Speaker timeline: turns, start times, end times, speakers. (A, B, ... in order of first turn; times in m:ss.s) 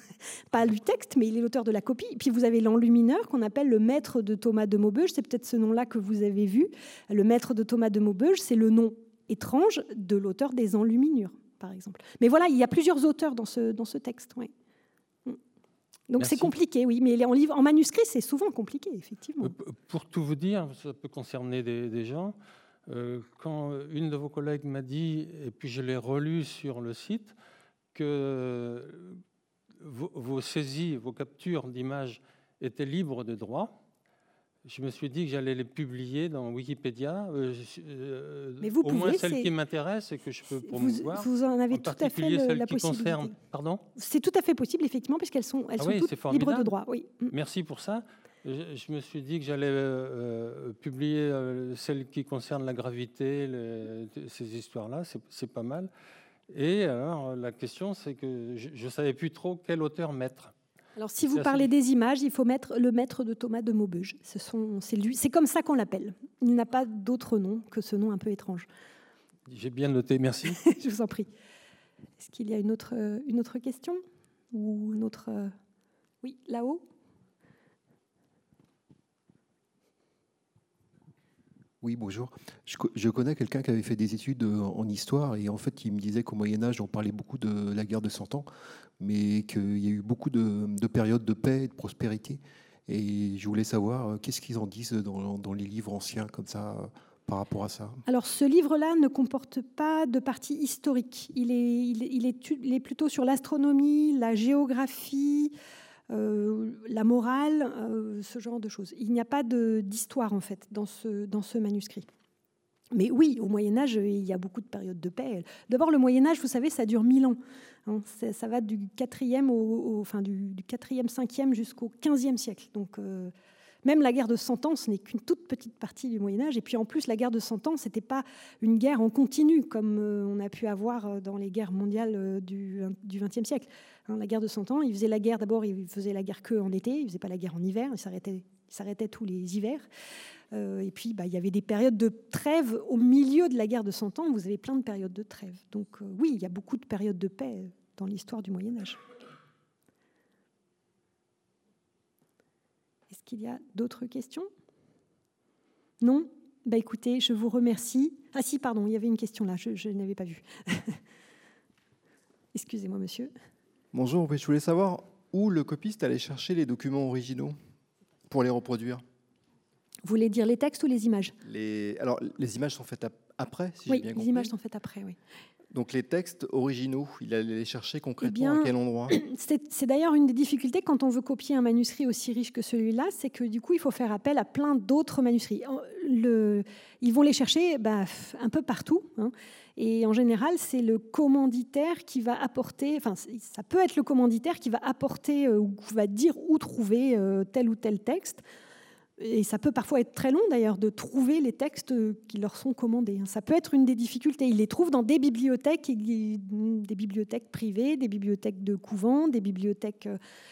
0:00.5-0:14.5 A
0:16.1-0:19.5 A
0:16.2-0:16.5 B
0:19.4-0:27.3 B
0:27.9-0:29.2 B
0:29.8-0:33.7 B
0:34.6-0:43.8 B
0:38.6-0:39.5 A
0:40.6-0:43.3 A
0:44.0-0:47.3 A
0:45.8-0:46.7 B
0:47.3-0:55.9 B
0:56.5-1:00.5 B
1:01.0-1:08.7 A
1:01.3-1:01.7 B
1:09.5-1:10.6 B
1:10.6-1:11.3 A
1:12.2-1:14.0 A
1:14.5-1:15.5 A
1:16.2-1:16.8 A
1:21.8-1:28.5 C
1:29.0-1:38.0 C
1:38.1-1:45.5 A
1:46.1-1:52.1 A
1:52.9-2:03.3 A
2:03.8-2:19.9 A
2:20.5-2:29.0 A
2:33.1-2:34.5 A
2:36.0-2:41.0 A
2:42.5-2:43.3 A
2:43.9-2:47.6 D
2:48.3-2:49.0 D
2:50.0-2:51.3 A
2:51.4-2:54.5 D
2:53.9-2:55.2 A
2:55.7-2:59.2 D
2:58.2-3:18.4 A
3:19.2-3:30.2 A